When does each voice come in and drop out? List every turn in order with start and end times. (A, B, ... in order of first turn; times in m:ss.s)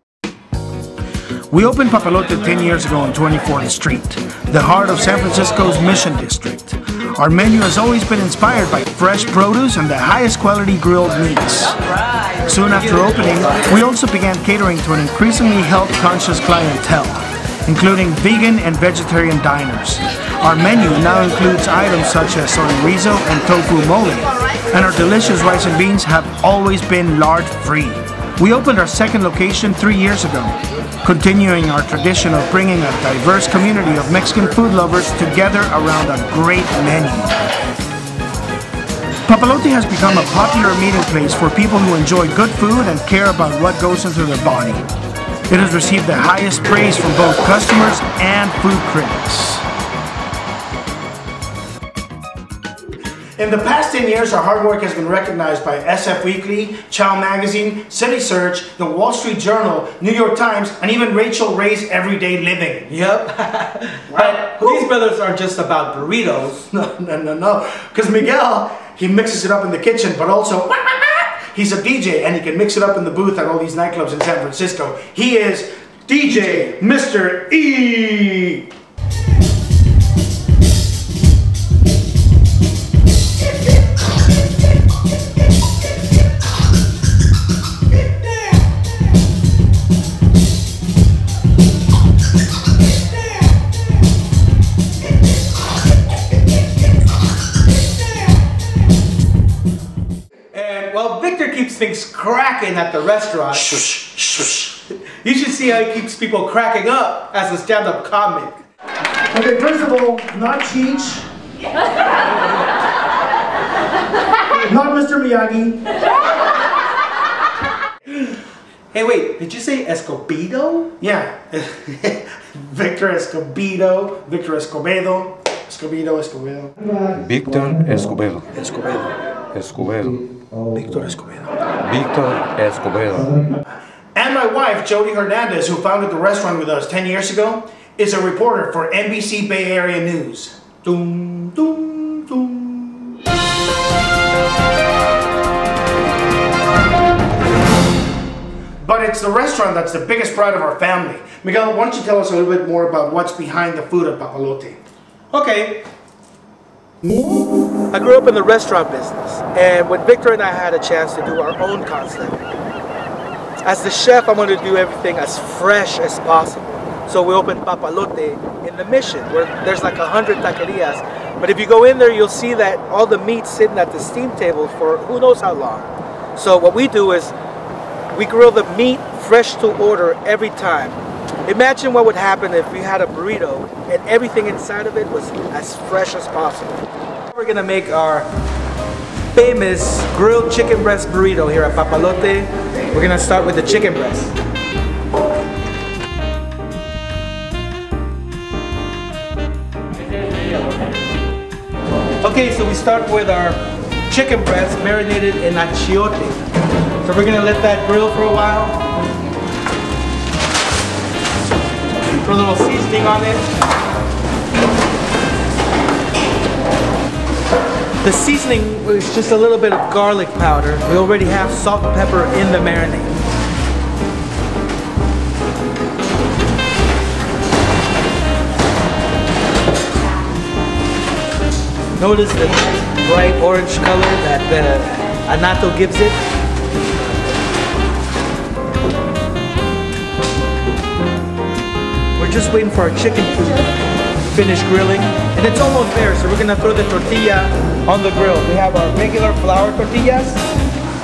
0:01.5-0:11.7 A
0:12.4-0:37.4 A
0:39.3-0:44.8 A
0:45.5-0:49.7 A
0:53.4-1:02.9 A
1:02.9-1:06.7 B
1:04.1-1:04.8 A
1:06.7-1:18.7 A
1:40.5-1:43.9 B
1:43.6-1:44.8 A
1:45.0-1:48.6 B
1:49.3-1:51.3 A
1:54.5-1:55.8 A
1:58.9-2:00.9 B
2:01.0-2:06.7 A
2:07.1-2:08.5 C
2:08.5-2:09.2 A
2:09.5-2:10.2 C
2:10.7-2:11.6 A
2:11.8-2:13.4 C
2:14.2-2:20.8 A
2:20.8-2:23.2 B
2:28.8-2:34.8 A
2:35.3-2:35.8 B
2:37.9-2:42.5 B
2:43.6-2:57.3 B
2:58.1-3:08.3 B
3:09.3-3:14.3 B
3:22.2-3:26.4 B
3:27.0-3:28.8 B
3:32.2-3:33.5 B
3:38.0-3:43.2 B
3:52.0-3:56.2 B
4:02.2-4:03.7 B
4:04.3-4:10.5 B